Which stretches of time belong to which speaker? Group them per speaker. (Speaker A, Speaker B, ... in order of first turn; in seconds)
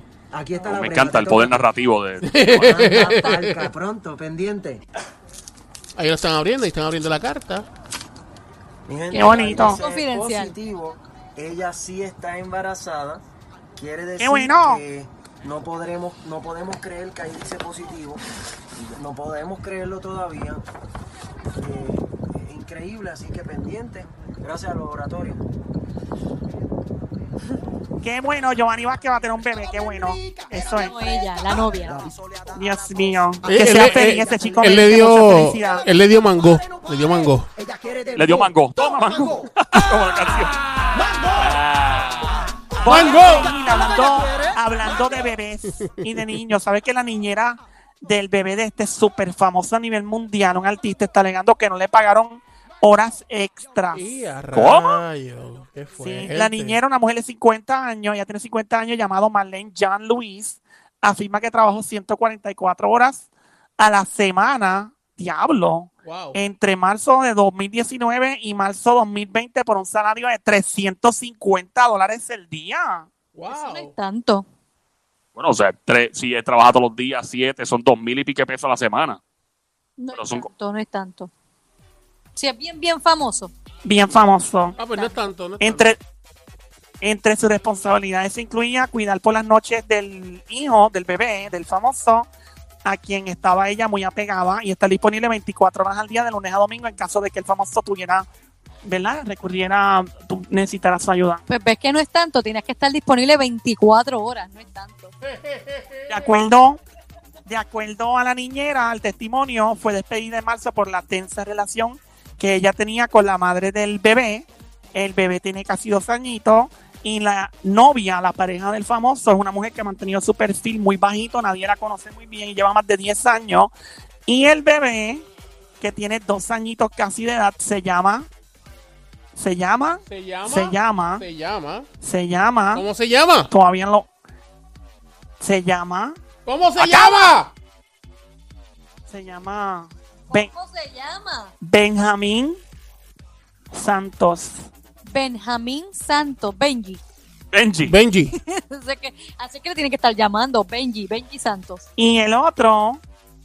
Speaker A: 0.3-1.6, 2.5-4.8, 8.9-18.2, 18.8-20.6, 21.6-25.4, 31.9-32.1
Speaker B: 0.6-2.8, 38.1-40.6, 41.3-42.5, 54.5-54.8, 75.3-79.2, 80.1-80.5, 147.5-147.9
Speaker C: 2.2-3.7, 6.0-7.7, 33.4-37.5, 42.9-43.5, 45.7-46.4, 53.9-56.8, 66.0-66.4, 73.3-73.9, 84.8-85.9, 105.3-106.3, 130.1-131.9, 132.7-133.5, 136.4-137.5, 147.8-148.3
Speaker D: 9.1-9.8, 14.2-14.8, 28.0-30.9, 32.5-35.8, 42.8-54.1, 54.7-55.0, 56.0-63.3, 63.8-73.1, 83.8-84.8, 85.6-86.0, 87.0-92.3, 92.8-98.2, 98.8-101.4, 106.1-106.8, 107.5-123.7, 124.3-125.2, 125.8-128.3, 129.3-131.2, 132.0-132.9, 133.5-134.1, 135.4-136.2, 136.8-137.4, 139.1-140.5, 141.6-142.6, 143.7-144.6, 151.9-153.0
Speaker E: 9.2-10.5, 30.8-32.0, 73.5-74.4, 80.0-81.3, 82.3-83.5, 84.8-85.2, 101.5-105.1, 140.3-141.5, 145.1-147.0, 148.3-151.8